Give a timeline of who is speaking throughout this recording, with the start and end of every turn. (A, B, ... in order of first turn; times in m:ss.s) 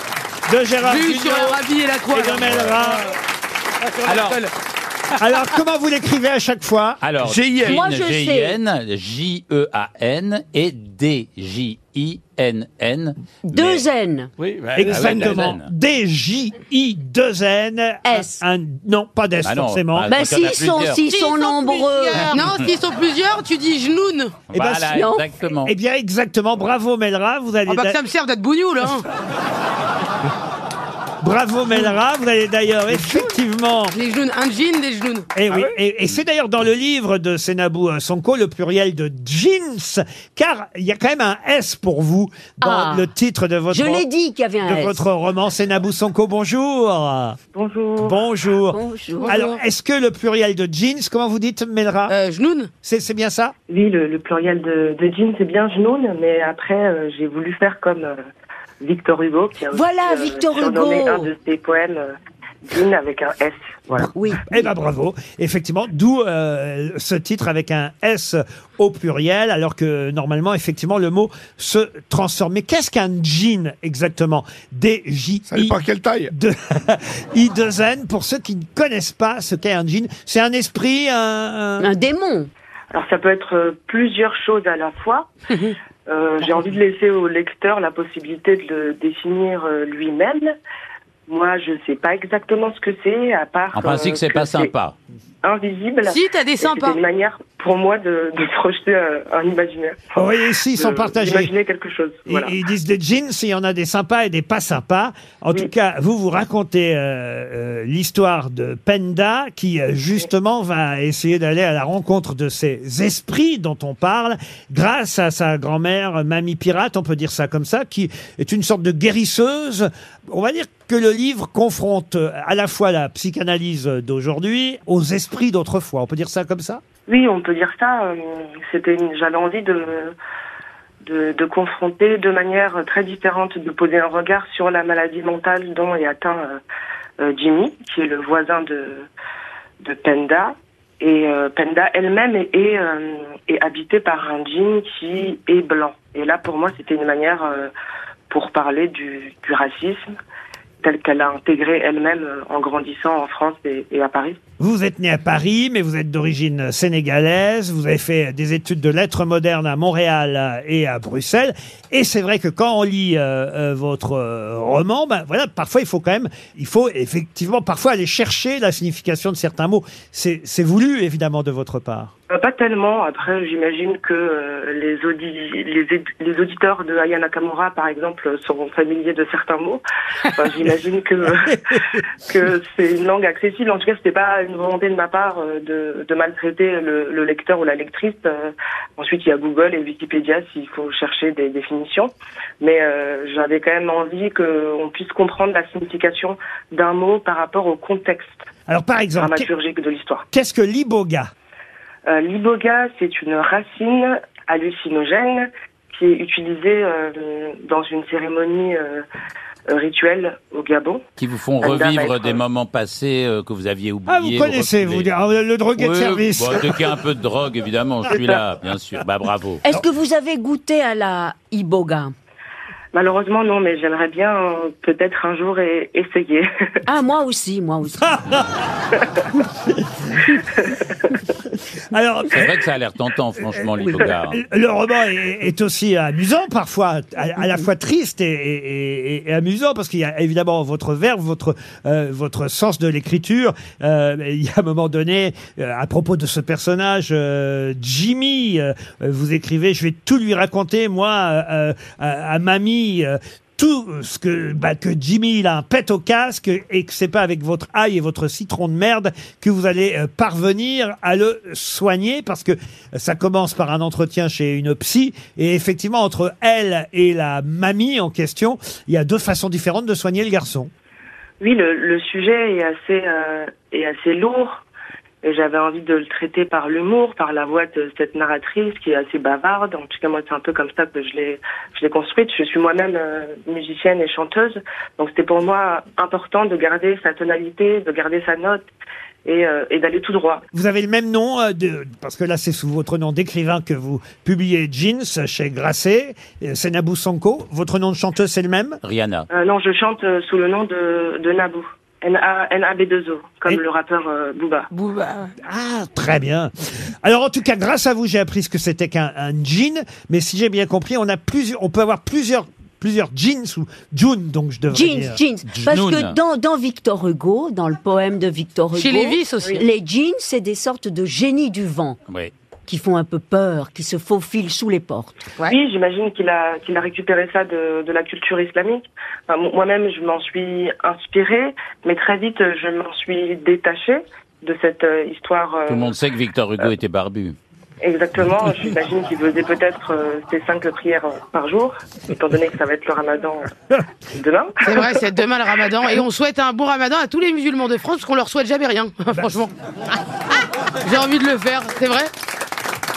0:00.5-0:03.0 A
0:00.8-0:02.5 B
0:02.4-0:02.8 C
0:03.8-0:04.5 D
0:04.0-0:04.4 C
0:05.1-0:07.0 A
0:07.0-0:13.8 C
0:07.2-0:07.8 D
0:07.6-0:08.6 E
0:13.4-0:14.3 E
0:14.4-0:15.5 D
0:14.8-0:20.1 A
0:14.8-0:15.7 C
0:18.0-0:18.4 E
0:19.4-0:21.1 C
0:20.1-0:22.4 E
0:22.3-0:24.4 B
0:22.3-0:22.7 C
0:24.5-0:25.7 C
0:24.5-0:25.0 A
0:24.9-0:25.2 E
0:25.5-0:28.0 A
0:27.7-0:29.1 B
0:31.2-0:33.9 A
0:32.9-0:33.2 B
0:33.9-0:35.3 B
0:35.3-0:44.0 A
0:42.6-0:43.1 E
0:43.7-0:45.0 E
0:44.6-0:47.4 A
0:47.5-0:48.2 F
0:48.0-0:52.1 A
0:48.7-0:49.4 E
0:49.2-0:49.6 B
0:52.1-0:52.7 B
0:52.8-0:53.5 A
0:53.7-0:58.2 F
0:58.8-1:02.1 F
0:59.7-1:01.3 E
1:02.7-1:04.1 F
1:04.0-1:15.8 A
1:04.1-1:04.7 E
1:15.5-1:16.3 D
1:16.3-1:21.9 A
1:21.8-1:22.5 E
1:22.9-1:25.3 F
1:25.5-1:25.8 B
1:26.1-1:30.5 F
1:31.3-1:34.7 F
1:33.7-1:34.9 C
1:35.4-1:40.1 F
1:36.0-1:37.0 B
1:40.1-1:41.5 A
1:40.7-1:42.6 F
1:42.2-2:06.8 A
2:07.1-2:10.1 F
2:11.0-2:16.6 F
2:17.2-2:19.0 F
2:19.8-2:27.7 F
2:28.3-2:30.1 F
2:30.8-2:34.4 F
2:34.6-2:52.1 A
2:52.3-2:59.8 F
3:00.3-3:01.6 F
3:01.7-3:02.0 A
3:02.3-3:18.4 F
3:18.7-3:19.5 A
3:19.2-3:20.2 F
3:20.3-3:21.3 A
3:22.0-3:29.0 F
3:29.7-3:31.0 F
3:31.2-3:35.1 C
3:31.6-3:32.4 F
3:34.1-3:36.8 A
3:35.8-3:39.6 C
3:39.6-3:42.1 E
3:42.9-3:46.5 F
3:46.8-3:48.4 E
3:48.0-3:48.5 A
3:51.9-3:52.5 A
3:52.3-3:54.4 C
3:54.0-4:30.7 A
4:31.4-4:34.6 F
4:35.2-4:48.6 F
4:49.2-4:50.4 F
4:50.5-4:58.8 A
4:58.8-4:59.3 C
4:59.3-5:04.7 F
5:04.7-5:05.3 B
5:05.4-5:15.2 A
5:14.7-5:22.0 E
5:15.5-5:16.2 C
5:18.7-5:19.6 B
5:22.7-5:25.2 E
5:25.4-5:36.0 F
5:35.7-5:37.4 C
5:37.8-5:43.5 F
5:44.1-5:44.8 F
5:44.6-5:50.0 B
5:50.8-5:52.1 B